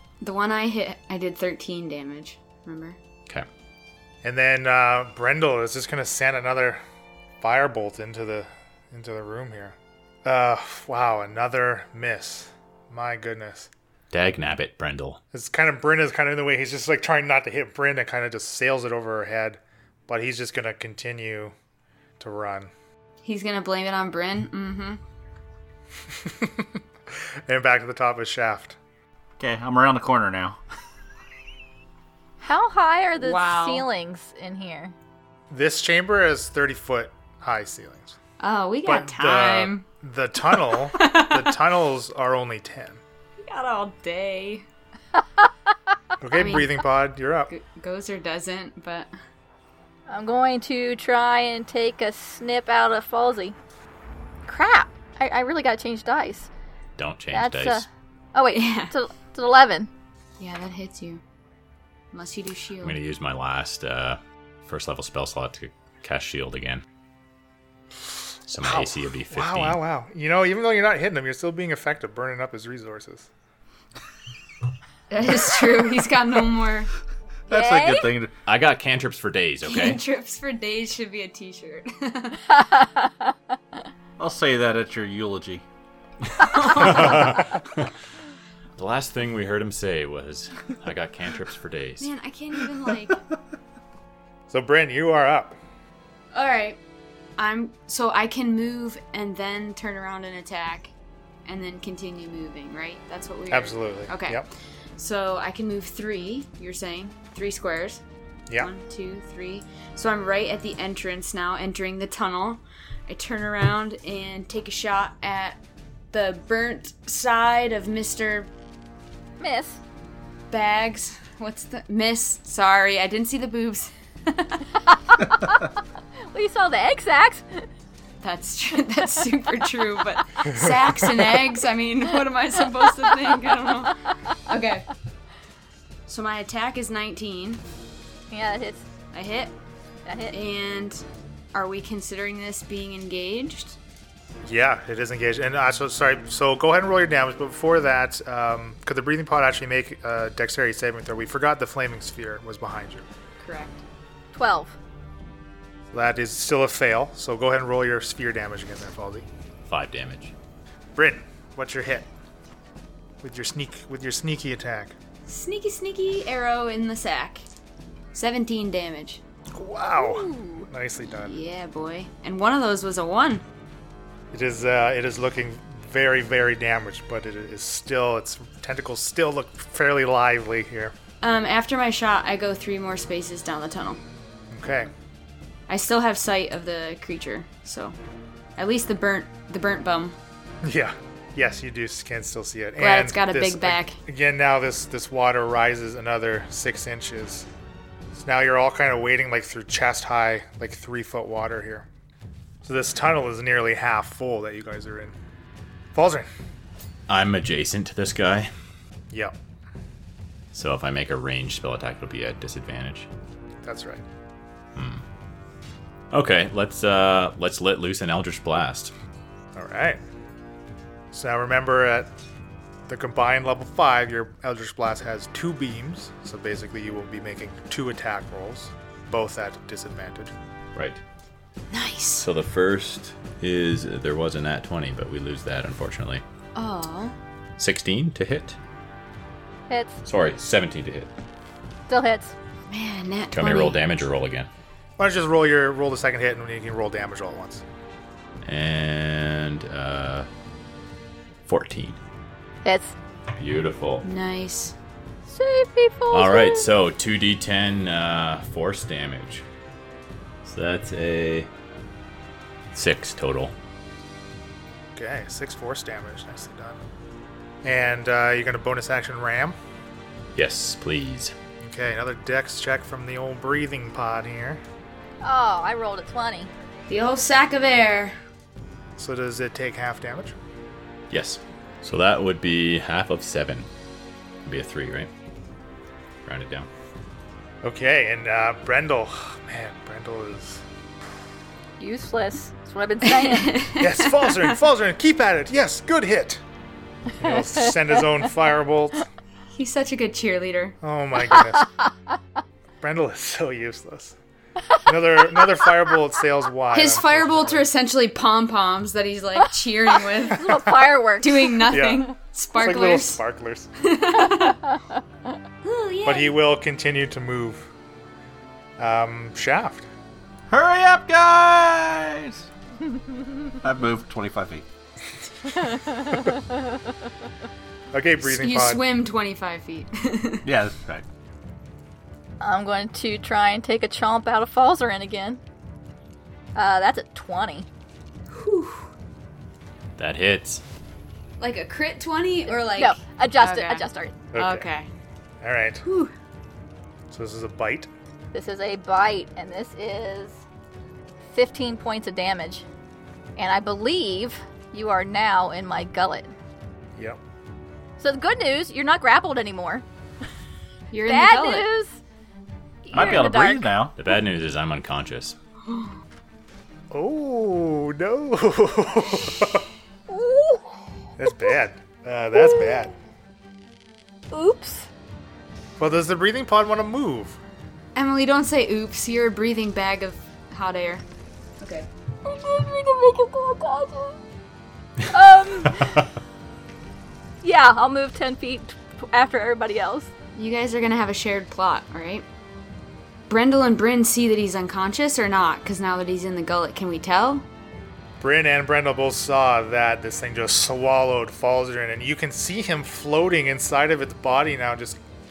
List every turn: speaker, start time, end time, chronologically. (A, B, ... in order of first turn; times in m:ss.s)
0:00.2-0:03.0 A
0:04.2-0:06.8 B
0:07.4-0:13.7 B
0:14.1-0:15.2 C
0:15.3-0:21.5 B
0:22.2-0:22.7 B
0:23.2-0:25.0 A
0:26.1-0:28.8 B
0:29.4-0:30.6 D
0:32.4-0:34.9 E
0:33.2-0:33.9 A
0:35.5-0:38.2 B
0:38.4-0:39.8 A
0:38.8-0:43.0 B
0:40.5-0:41.6 A
0:43.4-0:44.6 A
0:46.2-0:47.5 B
0:46.3-0:46.8 A
0:47.5-0:49.1 A
0:50.1-0:53.6 E
0:54.5-0:56.5 E
0:57.0-0:57.9 C
0:57.3-0:59.9 E
0:58.5-0:58.9 A
1:00.4-1:01.2 A
1:02.1-1:03.0 A
1:02.8-1:06.8 C
1:08.5-1:09.8 C
1:08.6-1:13.3 B
1:15.1-1:16.9 A
1:17.5-1:18.3 D
1:17.5-1:18.2 E
1:18.4-1:20.0 C
1:19.6-1:22.5 A
1:22.6-1:23.3 E
1:24.2-1:25.6 D
1:26.4-1:27.6 A
1:26.5-1:27.4 C
1:28.8-1:32.1 C
1:32.0-1:33.2 A
1:34.5-1:35.6 B
1:36.3-1:36.8 A
1:37.4-1:40.9 A
1:41.5-1:44.5 A
1:43.5-1:44.5 B
1:45.0-1:48.0 A
1:48.6-1:55.6 A
1:56.1-1:58.5 A
1:59.4-1:59.8 E
2:00.5-2:04.6 A
2:05.2-2:05.6 E
2:06.3-2:07.7 E
2:08.2-2:14.9 A
2:16.1-2:17.6 A
2:18.3-2:18.8 E
2:19.1-2:19.5 A
2:20.1-2:20.4 E
2:20.3-2:23.8 A
2:24.4-2:33.1 B
2:33.4-2:33.8 A
2:34.3-2:34.8 E
2:35.9-2:39.3 B
2:39.7-2:40.3 C
2:41.0-2:42.1 B
2:43.2-2:45.0 B
2:45.3-2:47.5 A
2:48.1-2:49.2 A
2:49.5-2:51.4 B
2:50.0-2:50.7 E
2:51.1-2:53.4 A
2:54.3-3:01.0 B
3:01.2-3:04.0 A
3:04.5-3:04.9 B
3:05.7-3:08.0 A
3:08.6-3:10.2 A
3:10.6-3:17.5 B
3:12.8-3:14.0 A
3:18.1-3:21.9 B
3:22.6-3:25.2 B
3:26.0-3:26.3 B
3:27.1-3:28.5 C
3:30.5-3:33.1 C
3:33.6-3:34.0 B
3:34.8-3:35.0 C
3:36.1-3:38.9 C
3:39.6-3:40.0 B
3:41.1-3:42.1 B
3:42.9-3:50.3 B
3:50.8-3:51.0 C
3:51.7-3:52.3 A
3:52.2-3:56.2 C
3:56.6-3:57.2 A
3:57.6-3:58.6 C
3:59.7-4:00.0 E
4:00.0-4:01.1 C
4:01.9-4:02.3 E
4:02.7-4:03.8 A
4:03.3-4:04.5 C
4:05.0-4:07.6 B
4:08.4-4:10.3 C
4:11.5-4:12.0 C
4:12.6-4:13.0 E
4:13.4-4:14.0 C
4:14.0-4:14.8 A
4:15.3-4:16.7 E
4:16.1-4:19.4 C
4:20.4-4:21.5 C
4:22.7-4:23.5 C
4:25.0-4:26.8 B
4:27.6-4:29.6 B
4:30.4-4:31.4 C
4:31.6-4:34.6 B
4:35.2-4:36.5 E
4:36.9-4:38.2 A
4:39.0-4:40.4 B
4:41.1-4:43.7 C
4:44.5-4:45.1 C
4:46.3-4:46.7 C
4:47.6-4:50.6 B
4:51.8-4:53.6 E
4:53.0-4:54.6 A
4:53.8-4:56.4 B
4:57.2-4:59.1 B
4:59.5-5:00.8 A
5:00.8-5:01.7 B
5:02.8-5:04.2 B
5:04.8-5:07.7 B
5:06.7-5:10.6 A
5:10.2-5:11.7 E
5:10.5-5:10.9 B
5:11.2-5:13.2 A
5:11.7-5:13.7 B
5:13.8-5:14.6 A
5:14.7-5:15.0 E
5:15.6-5:16.4 A
5:16.0-5:17.6 B
5:18.8-5:19.9 B
5:20.5-5:22.5 D
5:23.6-5:24.6 D
5:25.7-5:26.6 E
5:27.9-5:28.8 B
5:28.2-5:30.5 A
5:30.4-5:31.0 D
5:32.4-5:35.4 E
5:36.6-5:37.7 E
5:38.3-5:38.9 A
5:40.0-5:40.6 C
5:41.4-5:44.9 A
5:42.5-5:44.1 E
5:44.3-5:44.6 B
5:45.4-5:45.8 B
5:45.8-5:46.1 A
5:47.1-5:47.9 B
5:48.3-5:50.4 E
5:51.3-5:52.6 E
5:53.4-5:56.3 E
5:58.0-5:59.8 E
6:00.9-6:01.7 A
6:01.0-6:02.0 E
6:02.8-6:03.7 E
6:02.9-6:03.9 D
6:03.0-6:03.3 C
6:04.0-6:05.4 C
6:05.7-6:05.9 A
6:06.9-6:09.7 B
6:10.1-6:10.6 E
6:11.2-6:13.0 B
6:12.4-6:12.8 E
6:14.3-6:14.9 E
6:15.8-6:17.4 B
6:18.0-6:21.0 A
6:21.6-6:21.9 A
6:22.2-6:24.2 E
6:25.1-6:26.1 E
6:27.4-6:30.1 E
6:30.4-6:32.3 A
6:33.3-6:37.5 A
6:38.2-6:45.0 B